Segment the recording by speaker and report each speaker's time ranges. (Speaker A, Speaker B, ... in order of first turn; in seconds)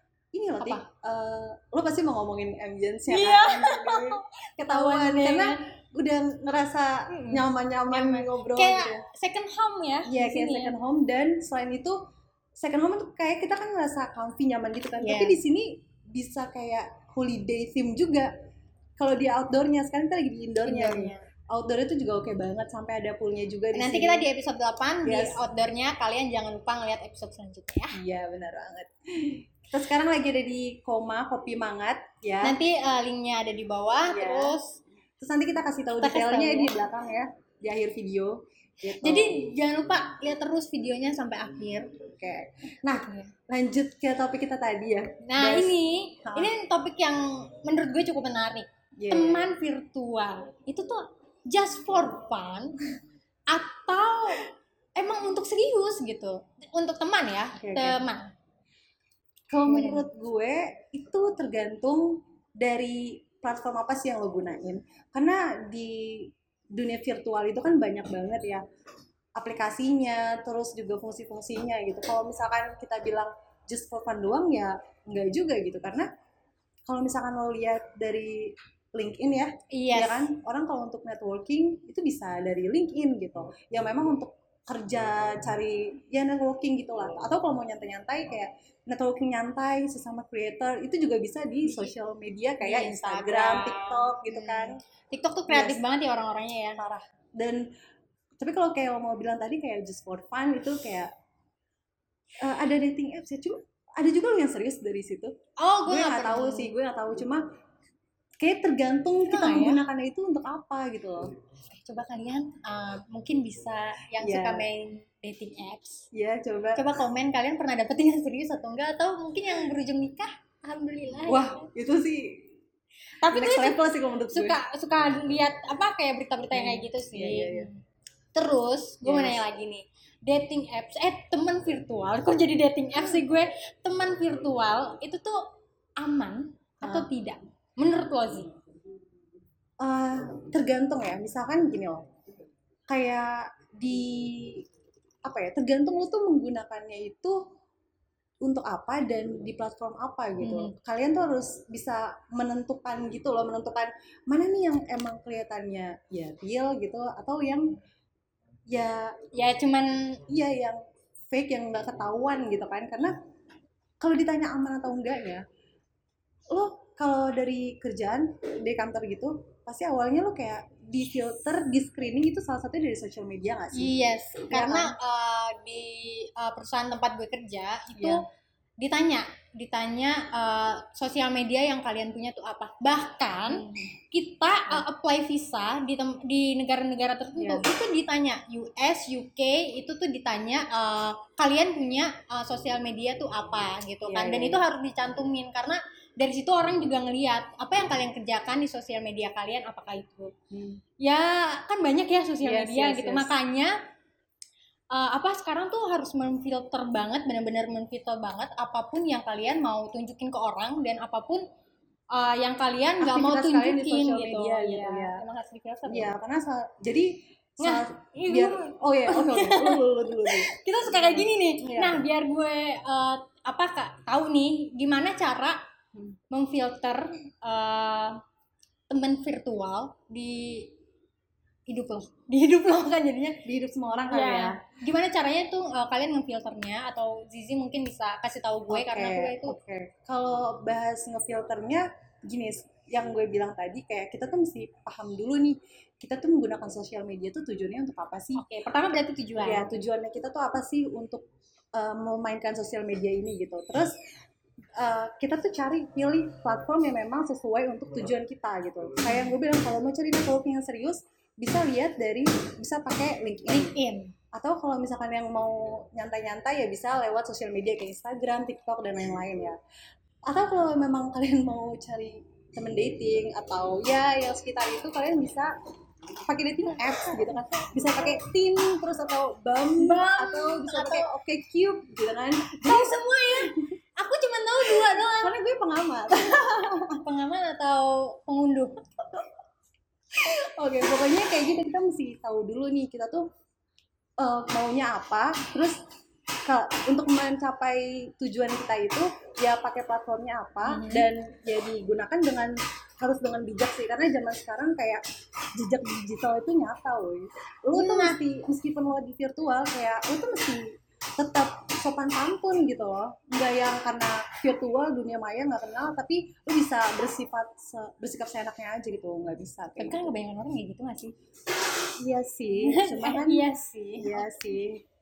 Speaker A: 0.3-9.0, 10.1-12.0, 12.6-18.3, 19.0-24.3, 25.0-25.4, 27.9-32.6, 34.0-34.6, 35.2-39.5, 42.0-46.5, 49.0-49.5, 57.6-58.0, 59.5-68.6, 69.3-76.1, 76.9-94.8, 95.5-95.8, 96.8-97.6, 98.4-101.1, 102.4-105.3, 105.9-107.4, 108.4-111.3, 114.2-114.7, 116.1-116.8, 121.3-122.5, 123.2-124.6, 126.5-127.7, 129.0-129.4, 136.8-137.1, 139.8-142.0, 142.9-144.7, 145.2-147.4, 148.4-157.8, 158.7-159.1, 160.3-160.8, 161.3-163.1, 164.0-165.4, 166.5-173.9, 174.5-174.9, 177.9-178.2, 183.4-183.9, 187.4-187.7, 194.1-194.6, 200.5-200.8, 202.4-203.3, 213.0-215.2, 215.9-222.1, 233.4-234.6, 238.7-248.4, 249.4-253.9, 254.8-263.7, 264.3-269.6, 270.2-275.5, 276.2-283.6, 284.7-287.0, 290.1-293.3, 294.2-295.8, 296.4-305.0, 305.5-310.6, 311.2-320.1, 322.0-323.5, 324.0-324.8
Speaker B: 0.6-0.8, 3.1-5.6, 7.1-10.8, 15.0-15.4, 20.6-21.2, 23.7-28.0, 32.4-34.8, 35.9-36.7, 38.9-41.9, 43.0-43.3, 45.2-52.8, 53.5-54.5, 55.0-58.3, 59.6-60.1, 79.7-80.3, 92.6-96.8, 105.6-106.7, 109.2-109.8, 111.7-116.0, 116.8-121.7, 123.2-127.8, 128.3-135.4, 136.0-138.5, 150.4-150.7, 159.3-160.2, 173.7-178.2, 178.8-200.3, 201.0-203.7, 204.9-211.4, 212.1-216.1, 217.6-225.6, 226.3-228.2, 228.9-230.7, 231.7-233.4, 234.1-239.6, 248.3-249.7, 263.5-264.1, 279.8-281.1, 282.6-285.4, 286.9-288.7, 300.6-301.1, 307.7-308.2, 319.8-321.1, 322.5-324.3